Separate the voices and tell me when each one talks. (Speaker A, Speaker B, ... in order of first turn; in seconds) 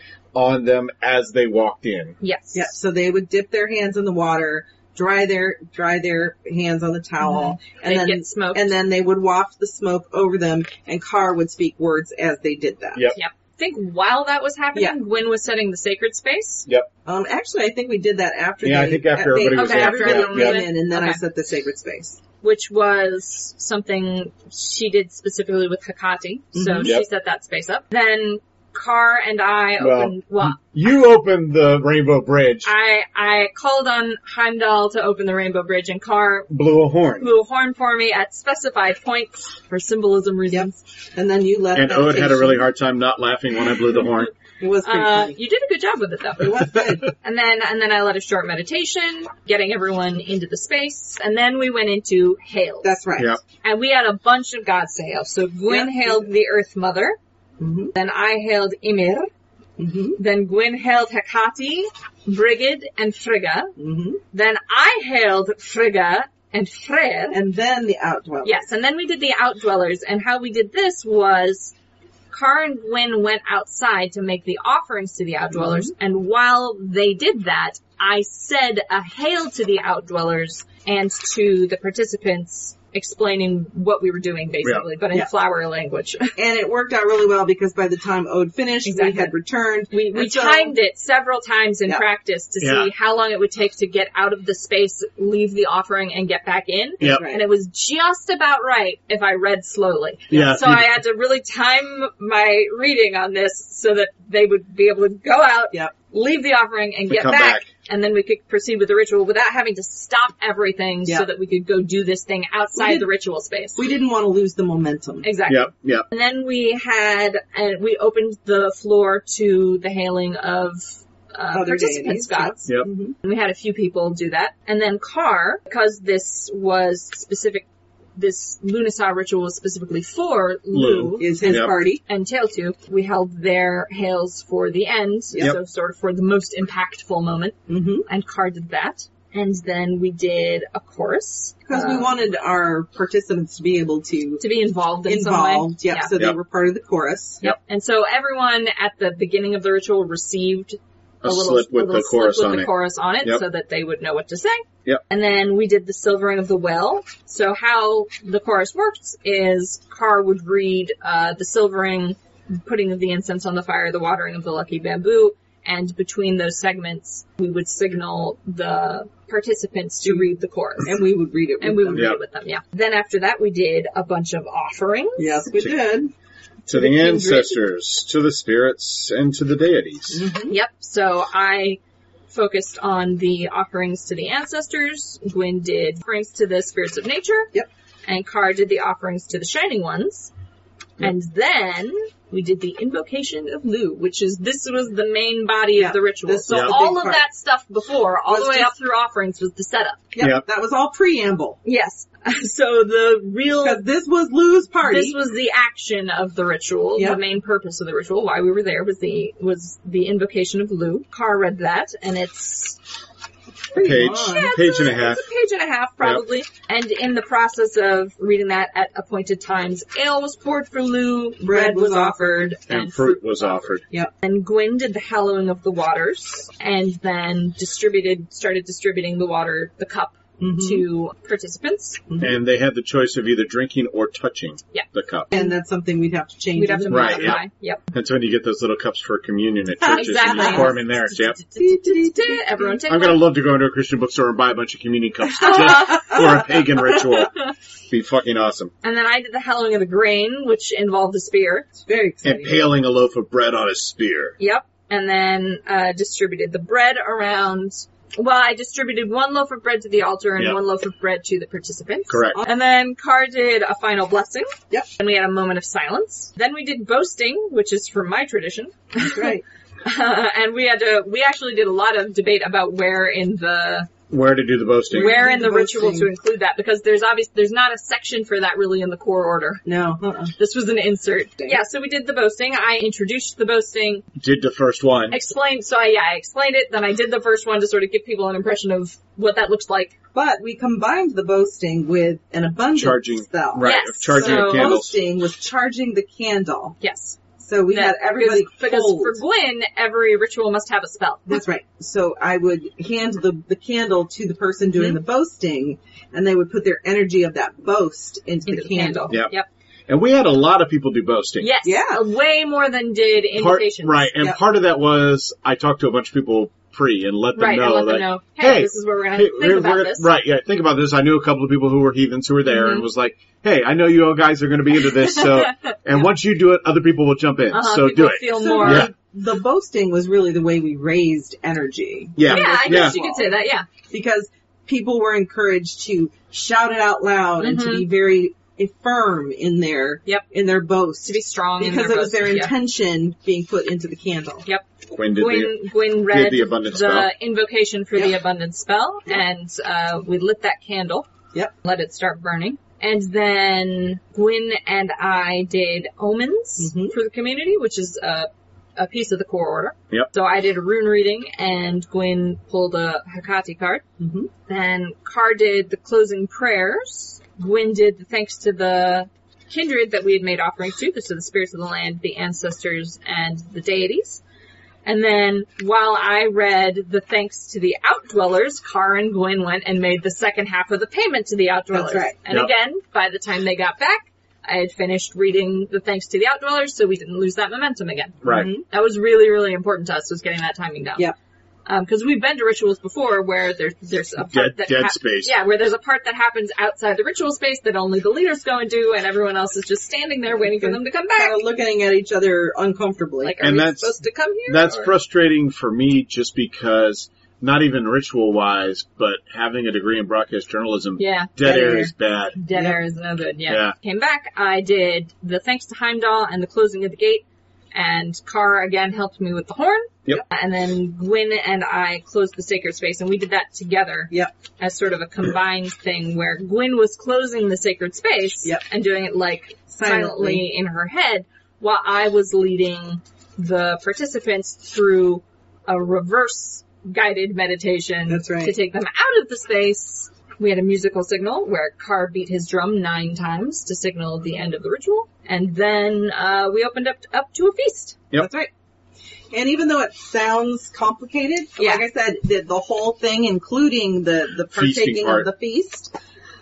Speaker A: 0.3-2.1, 18.6-20.6, 29.8-32.7, 36.5-37.3, 41.7-44.3, 92.6-92.9, 100.3-101.0, 107.1-107.7, 115.5-116.0, 130.7-131.7, 151.2-152.7, 171.9-172.2, 176.7-180.2, 196.5-196.8, 213.8-215.2, 222.7-223.8, 232.2-235.3, 236.9-241.4, 242.9-247.3, 247.9-248.7, 252.2-254.3, 262.1-262.4, 274.1-275.2, 284.2-285.2, 292.7-294.9, 309.9-311.5, 313.4-328.9, 332.1-333.0, 344.9-347.1, 388.2-388.5, 394.3-395.3, 403.4-403.9, 404.5-412.4, 413.5-413.7, 454.5-455.3
Speaker B: 2.2-2.7, 7.2-8.7, 13.1-16.7, 19.5-21.2, 22.4-30.6, 32.6-36.5, 37.2-40.8, 44.8-53.0, 53.6-57.2, 57.9-59.3, 60.1-63.7, 64.3-67.4, 68.4-71.7, 72.3-86.3, 88.8-89.3, 89.9-113.8, 115.2-122.7, 123.2-142.1, 144.4-146.1, 147.4-171.0, 171.6-175.4, 176.7-177.6, 180.5-187.5, 188.1-190.3, 191.0-200.1, 201.6-203.8, 204.8-212.8, 213.9-232.0, 234.7-235.5, 236.5-237.8, 239.9-243.2, 245.4-246.2, 246.9-247.5, 248.8-251.7, 254.4-273.9, 274.9-279.6, 280.4-284.0, 285.1-289.9, 293.6-294.8, 296.8-297.2, 297.7-301.4, 308.5-309.5, 311.4-314.1, 317.4-320.1, 322.4-322.9, 324.9-326.0, 327.5-328.9, 332.2-333.7, 337.4-337.9, 341.0-342.5, 344.4-351.1, 351.6-363.8, 364.5-374.2, 374.8-391.1, 391.6-401.4, 403.2-404.9, 411.0-448.0, 451.6-451.8
Speaker C: 2.5-13.1, 17.0-22.2, 26.5-26.9, 40.5-42.6, 44.6-45.4, 46.4-47.1, 52.8-53.4, 55.7-56.2, 57.6-57.9, 59.8-60.2, 63.8-64.2, 67.3-68.6, 75.5-75.9, 86.3-90.7, 97.0-97.4, 112.7-113.0, 113.8-115.3, 121.5-123.1, 131.2-132.0, 137.7-138.1, 141.7-144.4, 145.1-147.4, 170.8-172.1, 175.2-176.1, 180.1-180.5, 195.8-197.2, 198.3-198.7, 200.1-201.6, 203.6-205.2, 213.7-214.6, 221.4-222.5, 230.4-230.8, 235.3-237.4, 239.8-240.8, 241.6-242.8, 251.8-252.7, 269.0-269.4, 274.9-276.1, 279.6-280.3, 290.1-296.8, 297.4-299.2, 301.3-309.1, 311.6-312.0, 328.3-333.4, 333.9-344.4, 356.6-356.9, 364.0-364.3, 381.7-382.1, 388.2-388.6, 400.3-403.4, 411.4-411.9, 429.7-430.4, 438.1-438.5, 448.1-448.5, 449.3-455.9